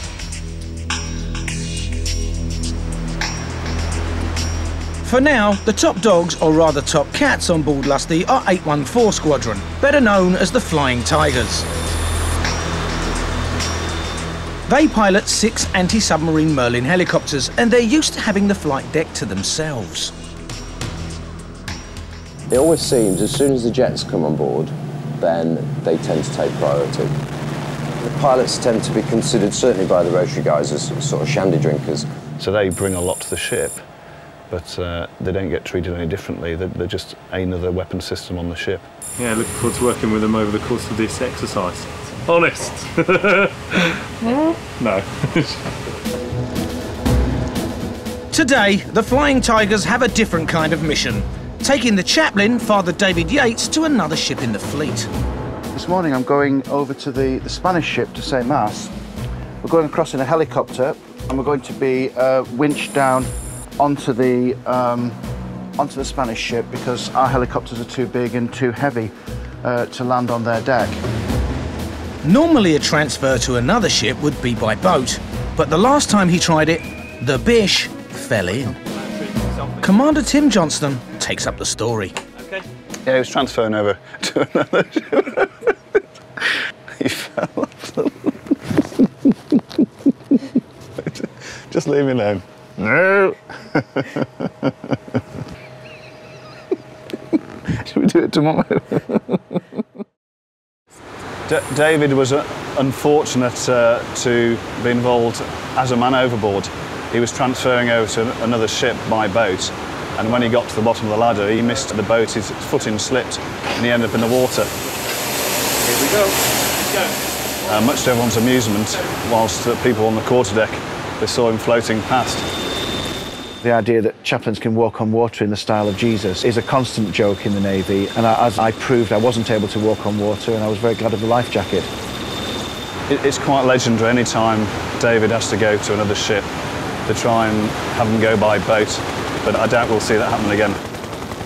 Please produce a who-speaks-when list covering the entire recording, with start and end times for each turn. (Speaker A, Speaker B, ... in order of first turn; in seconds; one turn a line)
Speaker A: 5.0-11.7
Speaker A: 14.7-20.1
Speaker B: 22.5-27.1
Speaker B: 28.0-32.1
Speaker C: 32.4-33.7
Speaker C: 34.5-38.8
Speaker D: 39.2-44.0
Speaker D: 44.8-45.6
Speaker A: 48.3-55.1
Speaker E: 55.7-58.9
Speaker E: 59.6-65.2
Speaker E: 65.8-69.1
Speaker E: 69.6-71.0
Speaker A: 72.2-78.8
Speaker A: 79.8-82.1
Speaker C: 83.1-83.4
Speaker E: 84.3-85.1
Speaker E: 87.0-87.6
Speaker E: 91.7-93.3
Speaker E: 97.9-99.0
Speaker C: 101.5-114.7
Speaker C: 117.7-122.5
Speaker E: 123.6-131.9
Speaker C: 133.1-136.5
Speaker C: 137.1-140.8